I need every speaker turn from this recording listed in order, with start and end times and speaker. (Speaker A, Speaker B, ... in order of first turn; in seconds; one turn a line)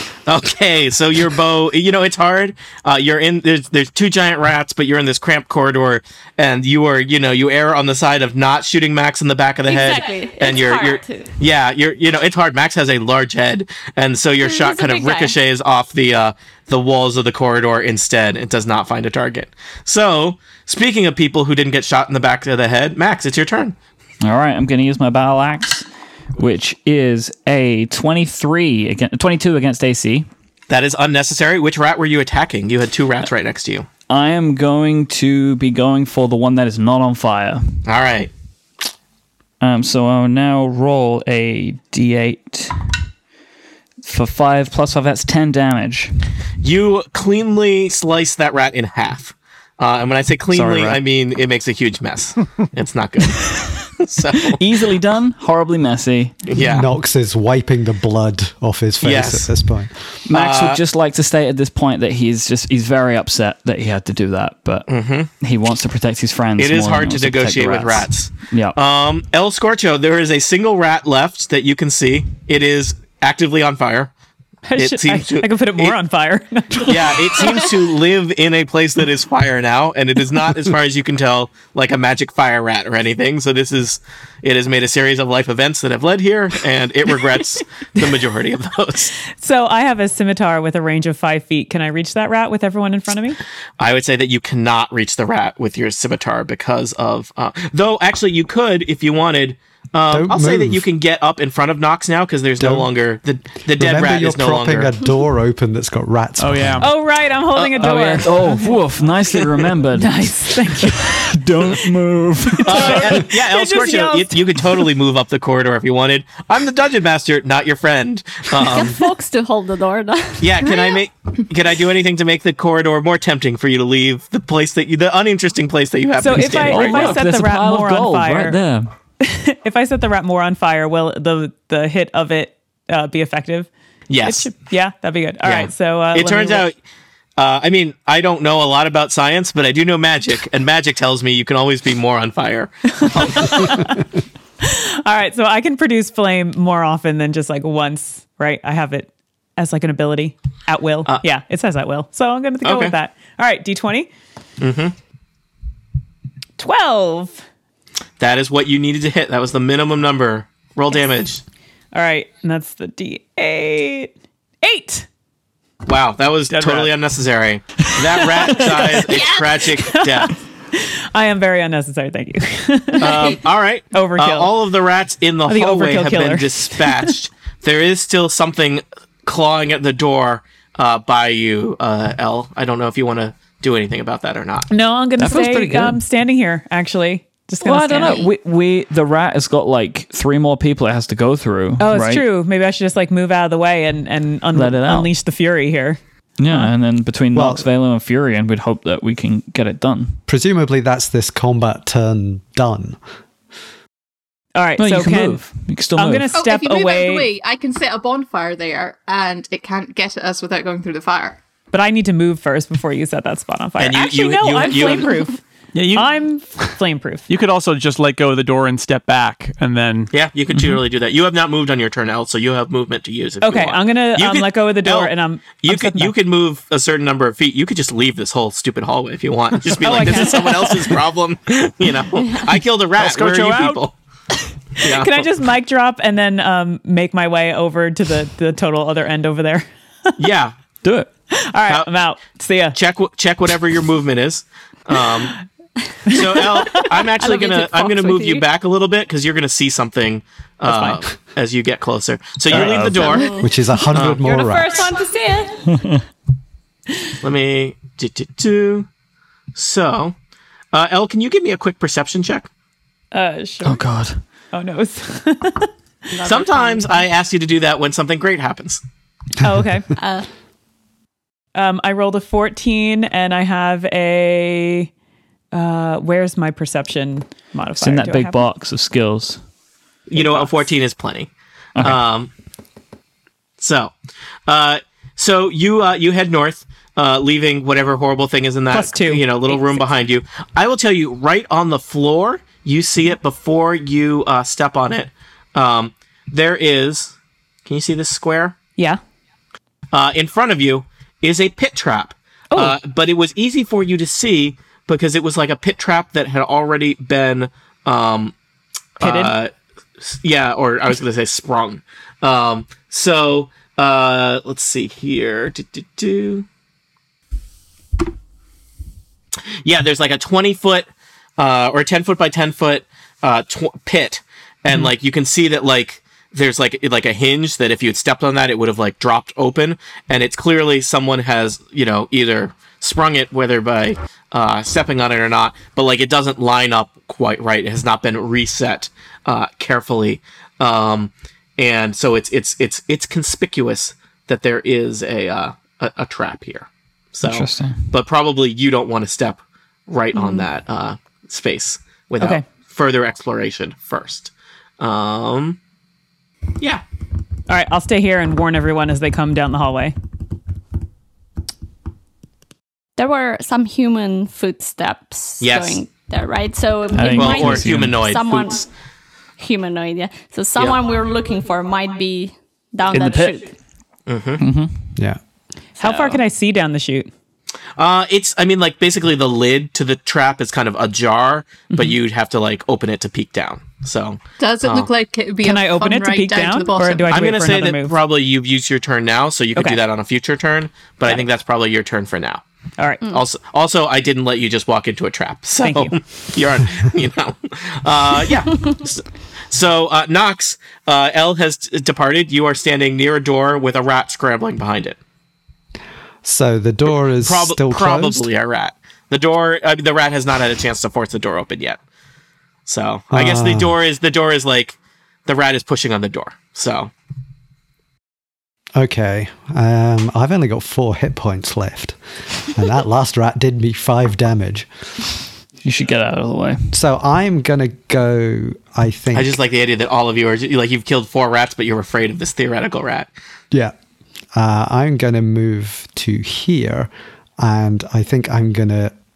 Speaker A: 0.3-23.8
Speaker B: 9.7-11.3
Speaker B: 14.4-15.3
Speaker C: 24.2-30.3
Speaker A: 30.7-33.9
Speaker C: 34.1-37.7
Speaker A: 37.8-38.3
Speaker C: 39.6-42.8
Speaker C: 44.0-46.1
Speaker A: 46.6-54.6
Speaker C: 50.5-51.0
Speaker C: 54.6-56.4
Speaker A: 56.5-56.9
Speaker D: 56.6-60.0
Speaker A: 59.0-59.5
Speaker C: 60.3-68.8
Speaker A: 60.3-60.8
Speaker A: 64.9-65.3
Speaker A: 66.6-74.1
Speaker E: 74.7-77.7
Speaker A: 74.8-76.0
Speaker A: 76.8-89.1
Speaker E: 89.3-93.4
Speaker A: 93.8-104.9
Speaker D: 100.1-100.8
Speaker D: 102.6-102.9
Speaker D: 103.7-106.8
Speaker F: 106.4-106.9
Speaker E: 106.8-108.8
Speaker A: 107.5-108.1
Speaker C: 107.8-113.1
Speaker E: 109.9-111.1
Speaker A: 112.6-119.0
Speaker E: 112.7-114.8
Speaker B: 118.5-121.0
Speaker A: 120.4-127.2
Speaker E: 126.2-128.6
Speaker C: 126.3-128.9
Speaker E: 129.2-133.7
Speaker A: 134.1-134.5
Speaker E: 134.2-136.7
Speaker A: 135.4-136.8
Speaker A: 137.4-143.7
Speaker E: 143.2-144.0
Speaker E: 144.6-154.1
Speaker A: 152.6-152.9
Speaker A: 154.6-154.9
Speaker E: 156.6-157.4
Speaker A: 158.2-161.4
Speaker E: 161.9-165.1
Speaker A: 165.8-170.3
Speaker F: 166.5-166.9
Speaker E: 169.6-173.4
Speaker A: 173.0-184.7
Speaker E: 173.9-174.5
Speaker E: 175.5-177.1
Speaker E: 184.7-188.3
Speaker C: 185.2-186.0
Speaker C: 187.6-192.2
Speaker E: 191.8-196.0
Speaker C: 194.5-195.1
Speaker C: 196.4-200.2
Speaker D: 197.3-197.7
Speaker D: 200.3-203.0
Speaker E: 204.5-205.4
Speaker C: 204.8-206.3
Speaker E: 205.9-207.3
Speaker G: 206.3-211.4
Speaker E: 211.7-215.4
Speaker A: 213.8-215.1
Speaker F: 215.7-216.1
Speaker E: 215.9-217.3
Speaker F: 217.3-220.1
Speaker A: 220.1-233.9
Speaker E: 223.4-226.1
Speaker E: 229.8-230.9
Speaker F: 233.0-233.8
Speaker A: 234.8-235.2
Speaker E: 234.8-239.7
Speaker A: 240.2-240.5
Speaker C: 240.8-241.1
Speaker E: 241.3-242.8
Speaker A: 242.7-245.3
Speaker A: 246.1-253.3
Speaker B: 247.2-248.4
Speaker E: 250.7-251.0
Speaker C: 252.5-253.1
Speaker B: 252.6-255.7
Speaker D: 253.4-254.8
Speaker A: 253.9-254.2
Speaker A: 257.2-258.9
Speaker A: 259.5-260.1
Speaker A: 260.7-262.5
Speaker E: 263.1-263.8
Speaker C: 263.6-264.2
Speaker E: 264.5-265.7
Speaker B: 266.1-267.0
Speaker A: 266.2-268.8
Speaker E: 269.4-269.9
Speaker B: 270.0-270.3
Speaker E: 271.5-274.9
Speaker E: 275.5-278.4
Speaker C: 277.8-279.4
Speaker A: 280.1-282.3
Speaker E: 280.2-280.5
Speaker C: 281.8-282.0
Speaker A: 283.6-283.9
Speaker A: 284.5-297.1
Speaker E: 288.7-289.8
Speaker A: 297.6-298.6
Speaker A: 299.9-308.3
Speaker E: 302.5-302.8
Speaker A: 309.0-316.4
Speaker E: 309.0-309.3
Speaker A: 319.6-355.6
Speaker C: 347.2-347.8
Speaker B: 350.1-350.4
Speaker E: 357.5-359.9
Speaker B: 363.0-368.7
Speaker A: 365.4-365.8
Speaker C: 366.9-368.0
Speaker A: 367.1-368.6
Speaker B: 369.4-373.5
Speaker C: 372.9-373.4
Speaker A: 374.1-374.4
Speaker C: 374.4-374.8
Speaker E: 375.8-377.1
Speaker A: 377.8-384.9
Speaker G: 384.4-387.1
Speaker E: 385.4-387.9
Speaker A: 387.1-392.4
Speaker E: 392.8-393.0
Speaker A: 393.1-405.0
Speaker E: 395.6-395.9
Speaker D: 406.2-408.3
Speaker A: 407.2-411.8
Speaker A: 412.7-416.9
Speaker D: 413.1-413.7
Speaker D: 418.7-424.7
Speaker C: 425.6-426.7
Speaker D: 426.7-429.4
Speaker A: 429.1-433.1
Speaker D: 434.3-438.9